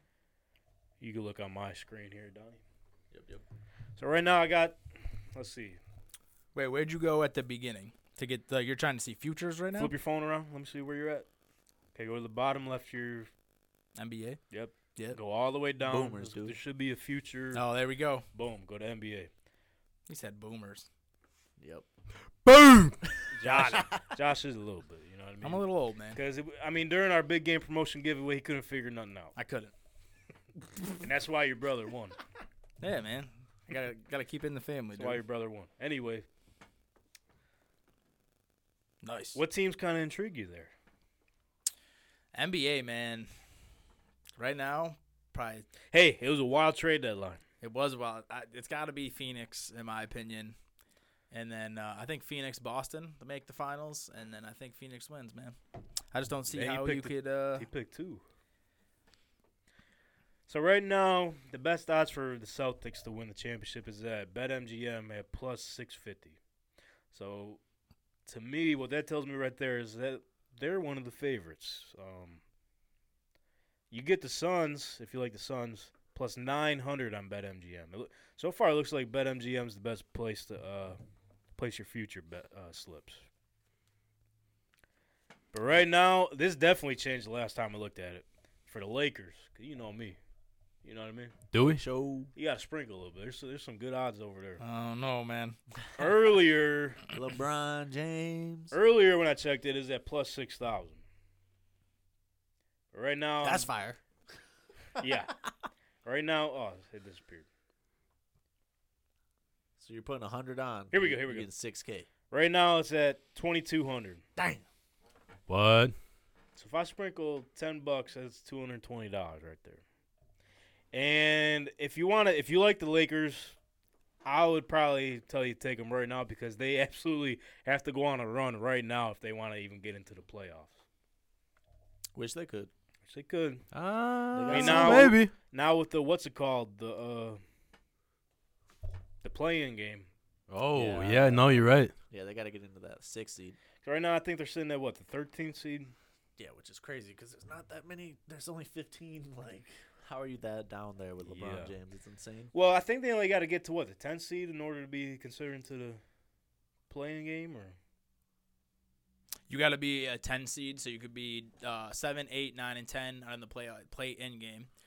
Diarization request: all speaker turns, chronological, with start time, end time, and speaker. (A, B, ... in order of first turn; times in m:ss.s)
0:01.0-0:02.6 A
0:03.1-0:03.4 B
0:04.0-0:04.8 A
0:05.3-0:05.8 A
0:06.5-0:09.9 C
0:09.8-0:11.2 A
0:11.9-0:13.3 A
0:14.0-0:14.4 C
0:14.5-0:17.6 A
0:15.8-0:16.5 B
0:17.5-0:18.2 C
0:18.3-0:19.3 A
0:20.1-0:20.9 C
0:21.6-0:21.8 B
0:22.4-0:23.0 D
0:23.3-0:29.3 A
0:23.4-0:23.8 B
0:25.4-0:26.2 C
0:29.4-0:29.7 C
0:30.9-0:32.2 A
0:32.8-0:35.2 C
0:35.0-0:36.2 A
0:39.0-0:39.4 C
0:39.3-0:40.7 A
0:42.3-0:43.3 C
0:44.4-0:45.7 C
0:45.9-0:47.4 A
0:47.6-0:50.6 C
0:51.3-0:55.6 C
0:56.1-0:57.7 C
0:56.5-0:58.2 A
1:00.5-1:06.4 A
1:07.1-1:07.6 A
1:08.2-1:12.4 A
1:13.9-1:21.0 A
1:21.6-1:23.2 A
1:25.5-1:30.2 A
1:30.8-1:31.3 A
1:31.5-1:31.8 D
1:31.6-1:32.3 B
1:32.4-1:34.6 A
1:34.6-1:35.6 C
1:36.0-1:37.0 A
1:37.1-1:38.7 B
1:38.7-1:41.0 A
1:42.9-1:43.7 A
1:43.4-1:44.0 B
1:45.0-1:45.4 A
1:46.0-1:47.4 A
1:49.8-1:52.1 B
1:50.9-1:51.5 A
1:52.3-1:54.2 A
1:54.4-1:54.6 B
1:55.5-1:55.9 D
1:56.6-1:59.8 A
2:00.9-2:03.6 A
2:04.2-2:10.7 A
2:12.1-2:12.7 B
2:13.1-2:13.6 A
2:13.7-2:15.3 D
2:14.3-2:15.1 B
2:14.4-2:17.4 A
2:19.2-2:20.1 A
2:20.5-2:21.9 D
2:20.7-2:23.6 B
2:23.8-2:25.9 A
2:26.4-2:32.5 B
2:31.2-2:31.7 A
2:32.5-2:36.0 A
2:36.9-2:37.8 A
2:39.5-2:44.7 C